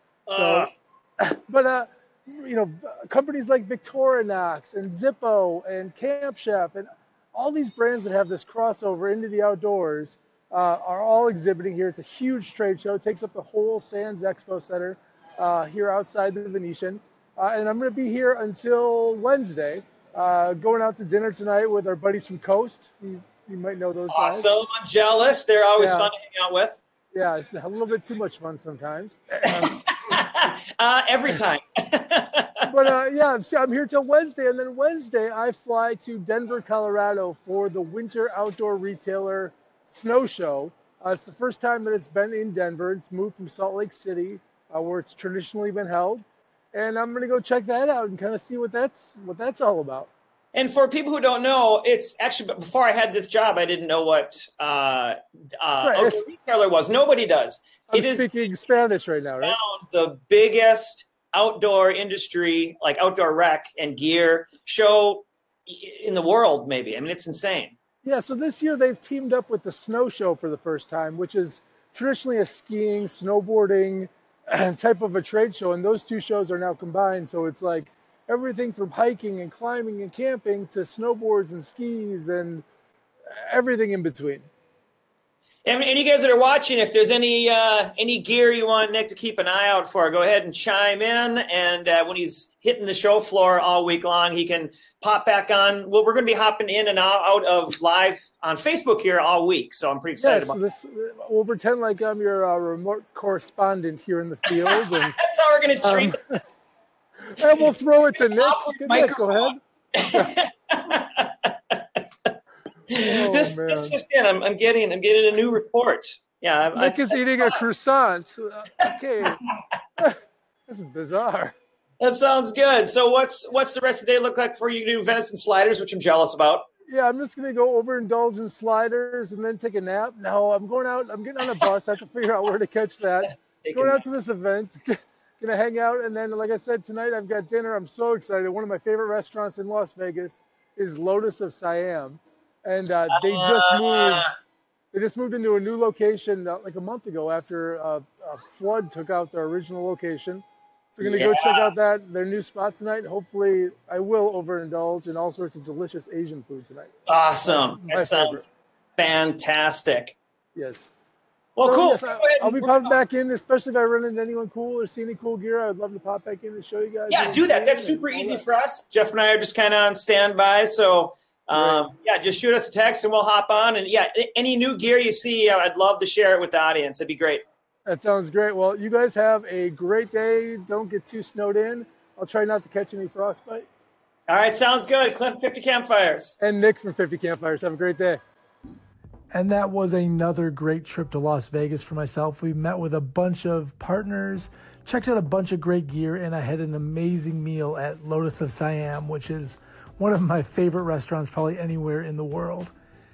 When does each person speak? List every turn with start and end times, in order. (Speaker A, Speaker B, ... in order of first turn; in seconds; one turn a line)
Speaker A: 0.3-0.7
Speaker B: 0.3-24.5
Speaker A: 24.1-26.8
Speaker B: 25.8-26.1
Speaker B: 27.1-29.8
Speaker A: 29.5-32.7
Speaker B: 32.7-50.1
Speaker A: 50.5-58.3
Speaker B: 55.8-56.2
Speaker B: 57.9-59.6
Speaker A: 59.4-67.7
Speaker B: 68.0-82.7
Speaker B: 83.4-84.5
Speaker A: 85.7-100.6
Speaker B: 100.2-105.2
Speaker A: 104.5-106.2
Speaker B: 105.8-106.4
Speaker B: 107.3-109.6
Speaker A: 107.4-107.7
Speaker A: 108.2-112.3
Speaker A: 112.9-117.6
Speaker B: 113.0-114.0
Speaker B: 116.8-119.4
Speaker A: 118.8-119.4
Speaker B: 120.7-121.5
Speaker A: 122.0-126.7
Speaker B: 126.9-144.3
Speaker A: 133.6-134.0
Speaker A: 143.1-144.3
Speaker B: 144.9-156.9
Speaker A: 151.0-151.7
Speaker A: 157.1-160.2
Speaker B: 157.4-158.5
Speaker B: 160.6-160.9
Speaker A: 161.6-163.0
Speaker B: 161.6-168.4
Speaker A: 167.1-177.4
Speaker B: 171.5-171.8
Speaker B: 177.9-183.7
Speaker A: 184.3-186.3
Speaker B: 186.4-188.2
Speaker C: 189.3-202.7